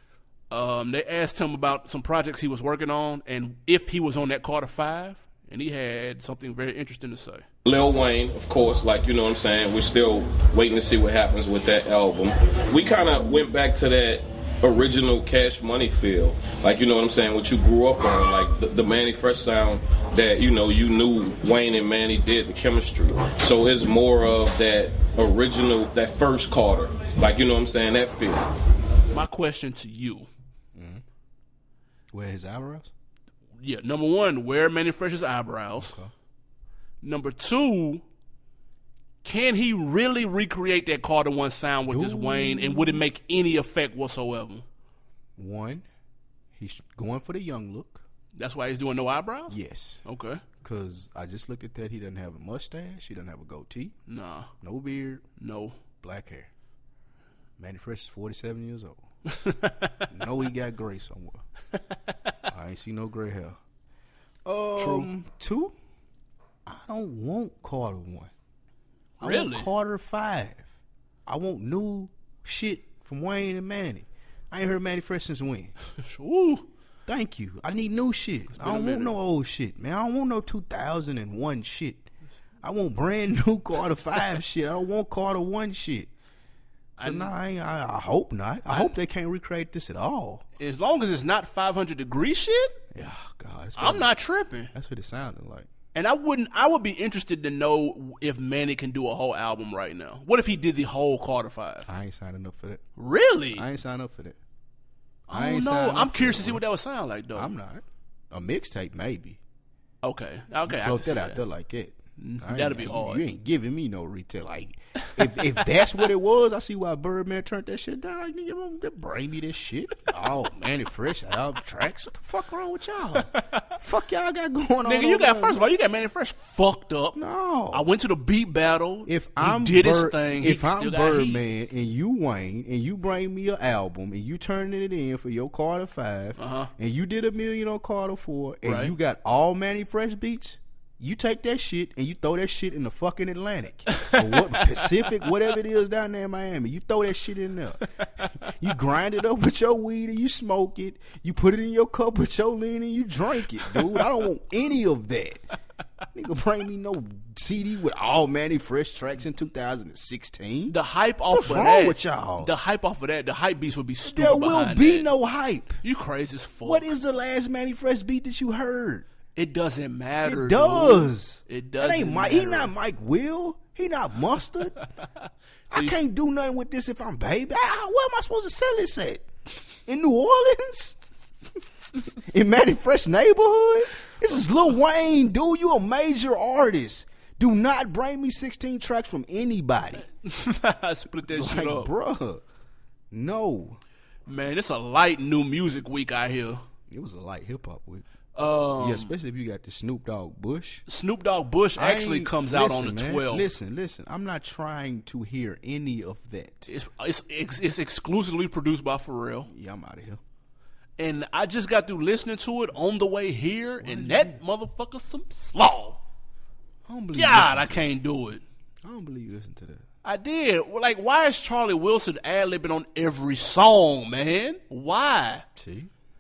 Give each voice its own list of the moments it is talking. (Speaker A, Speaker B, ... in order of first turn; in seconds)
Speaker A: 0.5-7.5, 29.1-30.3, 33.6-36.0, 37.0-38.0, 39.2-44.6, 48.4-50.4, 54.1-54.5, 55.4-55.8, 59.3-60.1, 64.8-65.1, 69.2-69.7, 76.0-76.7, 78.5-79.2, 87.0-87.3, 88.7-89.0, 90.6-92.8, 93.8-94.7, 95.9-101.9, 103.0-103.7, 105.3-107.5, 110.0-111.4, 112.2-113.3, 123.2-123.7, 124.8-127.2, 127.7-131.4, 136.4-136.7, 138.6-138.9, 143.9-144.7, 160.7-165.1, 165.8-166.9, 169.4-172.7, 175.7-176.0, 190.1-191.9, 194.3-196.6, 198.3-199.1, 200.9-203.5, 206.7-209.5, 211.0-216.0, 217.2-218.4, 220.0-225.4
Speaker B: 7.7-28.5
Speaker C: 30.8-31.0, 32.1-32.9, 35.8-36.1, 41.9-43.0, 45.4-45.9, 46.5-48.0, 49.5-50.0, 50.6-54.0, 54.6-55.3, 56.0-56.5, 57.6-59.0, 60.1-61.4, 62.5-63.6, 64.5-65.7, 66.7-68.3, 69.2-70.7, 71.3-75.7, 77.1-82.1, 82.6-86.1, 87.0-90.4, 92.9-94.1, 94.7-95.7, 101.8-102.8, 103.5-104.4, 105.3-106.6, 107.3-109.4, 110.7-125.7, 127.1-127.9, 129.1-155.4, 156.1-160.8, 161.3-162.5, 164.0-165.8, 166.6-169.1, 170.2-174.8, 175.7-179.3, 179.9-181.0, 182.2-190.1, 191.3-192.4, 193.1-193.8, 196.9-198.1, 198.8-200.8, 201.8-206.7, 209.5-210.2, 213.8-214.4, 216.9-217.9, 218.8-219.8, 225.6-225.9